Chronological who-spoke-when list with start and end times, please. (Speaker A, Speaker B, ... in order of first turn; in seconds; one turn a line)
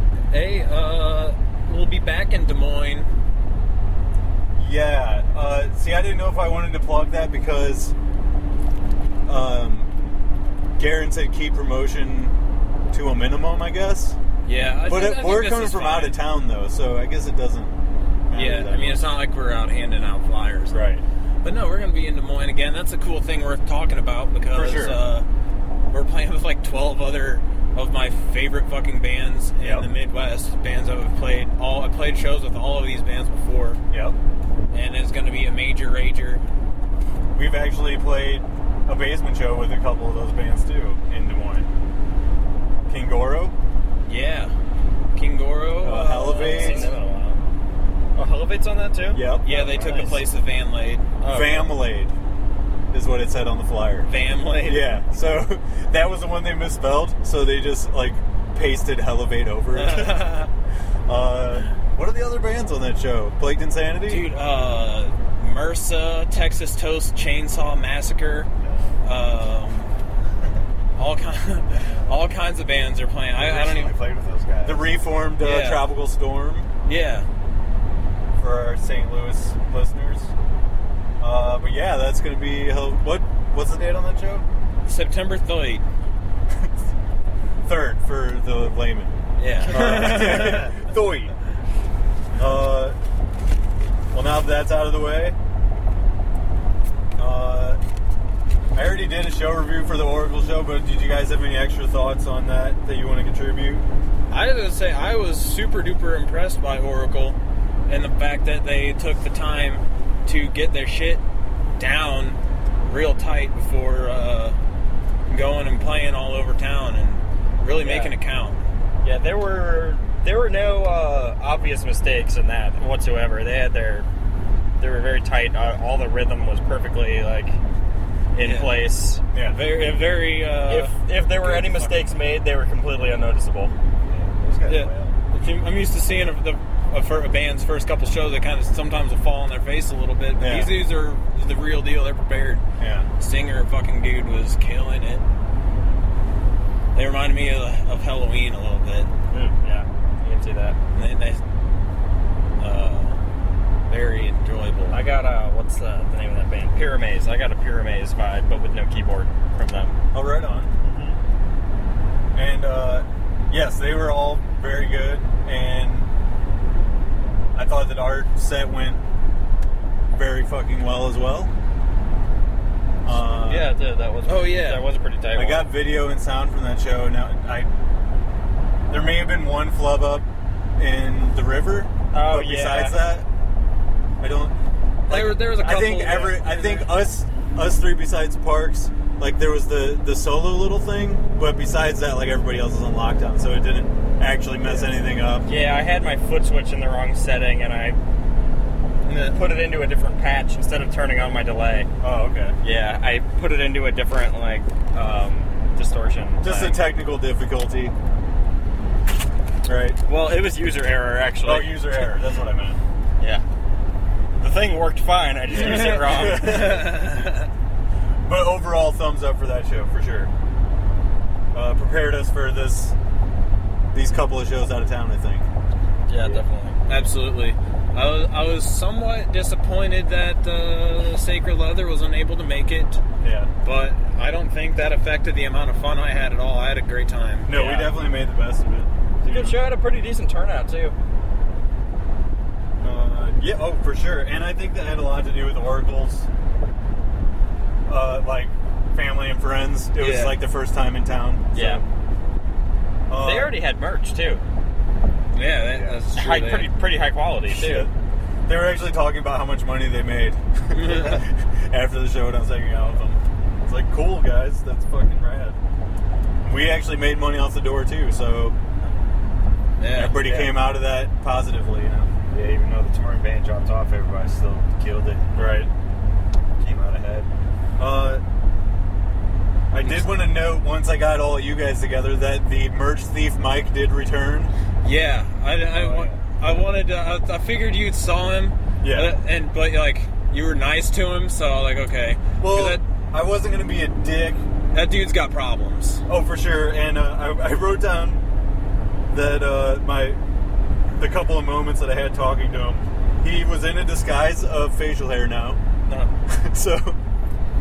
Speaker A: 0.3-3.1
Speaker B: 4.6-8.0
Speaker B: 9.3-9.9
Speaker B: 10.8-12.3
Speaker B: 12.9-14.2
Speaker A: 14.4-16.2
Speaker B: 14.9-17.8
Speaker B: 18.3-19.1
Speaker A: 18.3-20.9
Speaker B: 20.7-21.0
Speaker A: 21.4-25.3
Speaker B: 24.5-25.0
Speaker A: 25.9-33.8
Speaker B: 29.6-29.9
Speaker B: 33.9-34.2
Speaker A: 34.7-36.4
Speaker B: 37.4-41.7
Speaker B: 42.9-43.6
Speaker A: 44.1-44.5
Speaker A: 45.1-46.9
Speaker B: 45.8-46.9
Speaker C: 46.1-47.4
Speaker C: 48.2-50.3
Speaker B: 49.1-50.1
Speaker A: 49.4-51.1
Speaker C: 51.2-51.8
Speaker B: 51.3-52.1
Speaker B: 52.9-54.1
Speaker A: 54.1-54.9
Speaker B: 54.6-60.3
Speaker A: 59.7-60.5
Speaker B: 61.1-64.2
Speaker A: 64.1-68.5
Speaker D: 68.6-68.9
Speaker A: 69.0-69.9
Speaker A: 71.0-74.0
Speaker D: 71.8-72.2
Speaker D: 73.4-74.9
Speaker B: 74.6-76.7
Speaker A: 75.4-75.9
Speaker A: 76.8-77.3
Speaker B: 78.4-80.3
Speaker B: 81.2-84.5
Speaker A: 84.9-85.8
Speaker B: 87.6-91.3
Speaker A: 89.4-90.7
Speaker B: 92.4-93.0
Speaker B: 94.1-95.4
Speaker B: 97.2-97.8
Speaker B: 98.7-103.9
Speaker A: 104.3-111.2
Speaker A: 111.8-114.6
Speaker A: 115.3-118.6
Speaker C: 117.8-118.2
Speaker C: 119.0-124.1
Speaker C: 124.8-127.6
Speaker C: 128.3-129.2
Speaker A: 128.4-128.8
Speaker B: 129.3-129.6
Speaker A: 129.4-131.9
Speaker C: 130.7-133.7
Speaker D: 134.1-135.2
Speaker A: 134.7-142.6
Speaker B: 140.4-140.8
Speaker B: 142.8-143.1
Speaker A: 143.2-145.2
Speaker A: 146.9-149.1
Speaker C: 149.3-150.8
Speaker A: 150.9-151.4
Speaker A: 152.6-153.2
Speaker A: 153.9-155.0
Speaker C: 154.9-160.0
Speaker B: 160.1-160.7
Speaker C: 160.8-161.2
Speaker B: 162.3-166.1
Speaker B: 167.6-169.0
Speaker B: 170.2-171.5
Speaker B: 173.1-173.7
Speaker C: 173.3-175.7
Speaker A: 174.3-174.8
Speaker B: 175.3-177.7
Speaker B: 178.9-180.3
Speaker B: 180.8-183.3
Speaker C: 182.1-183.0
Speaker B: 184.2-184.5
Speaker A: 185.1-186.9
Speaker B: 185.1-195.5
Speaker C: 194.6-194.9
Speaker C: 195.4-198.0
Speaker C: 199.1-201.9
Speaker B: 202.0-202.6
Speaker C: 202.6-206.8
Speaker B: 206.4-207.9
Speaker B: 209.7-210.0
Speaker C: 210.1-212.1
Speaker B: 211.4-212.8
Speaker C: 213.2-213.4
Speaker C: 214.3-216.8
Speaker A: 215.5-217.5
Speaker B: 215.7-217.2
Speaker B: 218.2-220.3
Speaker B: 221.5-223.0
Speaker B: 223.9-225.5
Speaker C: 226.1-226.8
Speaker A: 226.9-233.0
Speaker B: 233.2-233.5
Speaker A: 233.6-237.9
Speaker B: 237.5-239.6
Speaker C: 239.2-240.9
Speaker B: 242.8-246.3
Speaker B: 247.9-251.8
Speaker A: 250.0-250.4
Speaker C: 251.5-251.8
Speaker B: 253.1-253.6
Speaker C: 253.2-254.4
Speaker A: 255.3-256.7
Speaker C: 256.1-257.9
Speaker B: 257.5-257.9
Speaker B: 258.5-265.6
Speaker A: 260.7-261.2
Speaker B: 266.4-268.6
Speaker A: 269.8-270.2
Speaker B: 269.9-272.1
Speaker D: 270.2-270.6
Speaker D: 272.3-275.3
Speaker B: 275.3-275.7
Speaker D: 276.6-277.3
Speaker B: 277.8-278.2
Speaker B: 279.7-284.5
Speaker A: 279.8-280.2
Speaker A: 284.8-292.8
Speaker B: 285.7-286.2
Speaker B: 288.8-289.1
Speaker B: 292.4-294.4
Speaker A: 294.7-296.0
Speaker B: 296.1-298.2
Speaker B: 299.1-300.2
Speaker B: 301.0-305.6
Speaker B: 306.3-307.0